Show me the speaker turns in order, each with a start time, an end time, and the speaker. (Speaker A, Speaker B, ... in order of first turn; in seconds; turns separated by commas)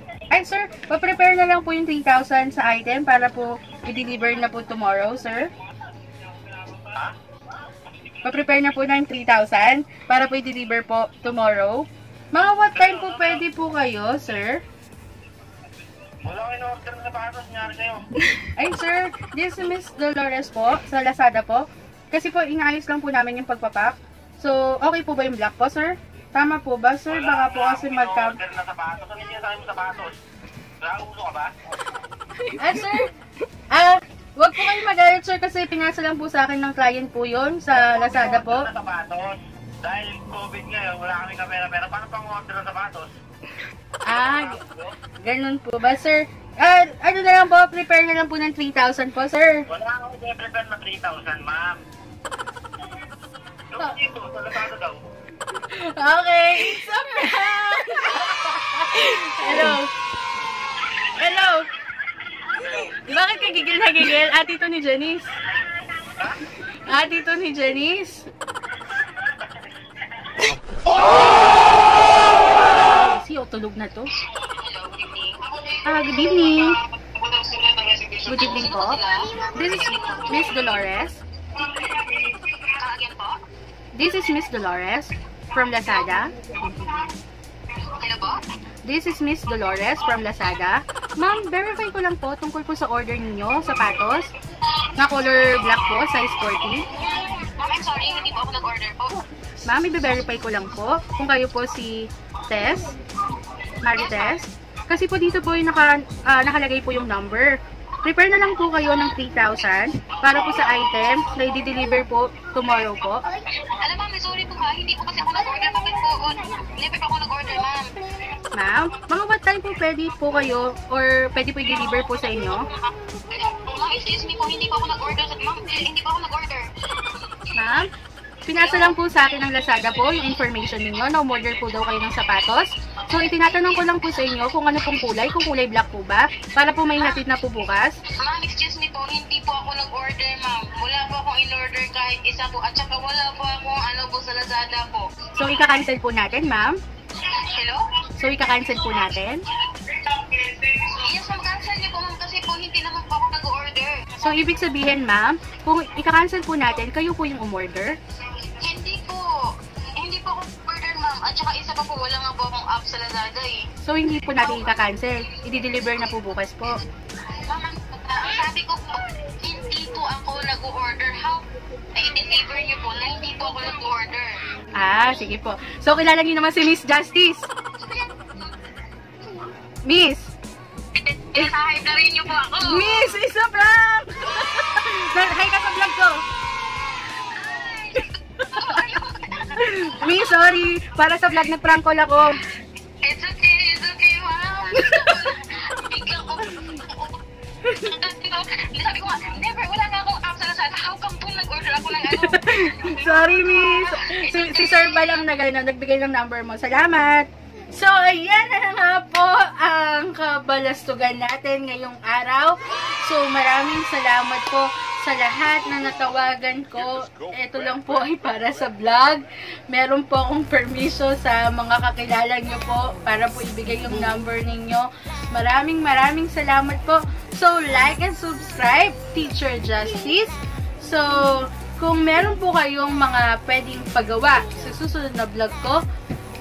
Speaker A: 0.3-5.5, Speaker B: 6.5-7.1, Speaker A: 8.2-14.6, Speaker B: 12.7-13.4, Speaker B: 16.2-18.1, Speaker A: 18.6-28.4, Speaker B: 27.1-30.1, Speaker B: 30.8-31.7, Speaker A: 32.5-33.1, Speaker A: 33.7-38.7, Speaker B: 37.9-43.1, Speaker A: 44.0-44.6, Speaker B: 44.1-44.9, Speaker A: 45.2-49.6, Speaker B: 49.7-51.8, Speaker B: 53.7-55.0, Speaker A: 55.5-59.9, Speaker A: 61.0-61.7, Speaker A: 62.6-65.3, Speaker B: 66.0-66.4, Speaker A: 66.6-68.3, Speaker B: 68.9-69.7, Speaker B: 70.2-70.9, Speaker A: 72.9-74.1, Speaker C: 74.2-80.8, Speaker A: 75.8-76.8, Speaker A: 78.2-79.0, Speaker A: 79.5-81.2, Speaker C: 81.7-83.4, Speaker A: 83.9-86.3, Speaker C: 86.4-87.1, Speaker C: 87.8-88.4, Speaker A: 88.8-94.3, Speaker A: 95.0-96.8, Speaker C: 96.9-99.3, Speaker A: 99.6-103.0, Speaker A: 103.8-113.2, Speaker C: 104.0-104.5, Speaker C: 113.5-118.0, Speaker A: 118.5-122.7, Speaker C: 123.3-127.2, Speaker A: 127.5-127.9, Speaker A: 128.4-137.9, Speaker C: 128.6-129.0, Speaker C: 133.1-134.1, Speaker C: 138.2-145.1, Speaker A: 145.3-146.8, Speaker C: 147.2-147.9, Speaker A: 148.2-149.4, Speaker C: 149.7-154.5, Speaker A: 154.2-158.0, Speaker C: 158.4-159.3, Speaker C: 160.0-163.7, Speaker A: 163.8-166.8, Speaker C: 164.3-165.4, Speaker C: 167.4-174.4, Speaker A: 174.7-177.5, Speaker C: 177.8-178.5, Speaker A: 179.8-180.3, Speaker C: 180.9-183.2, Speaker A: 182.6-186.2, Speaker C: 187.0-190.5, Speaker A: 189.6-192.4, Speaker C: 193.0-205.3, Speaker A: 202.1-235.8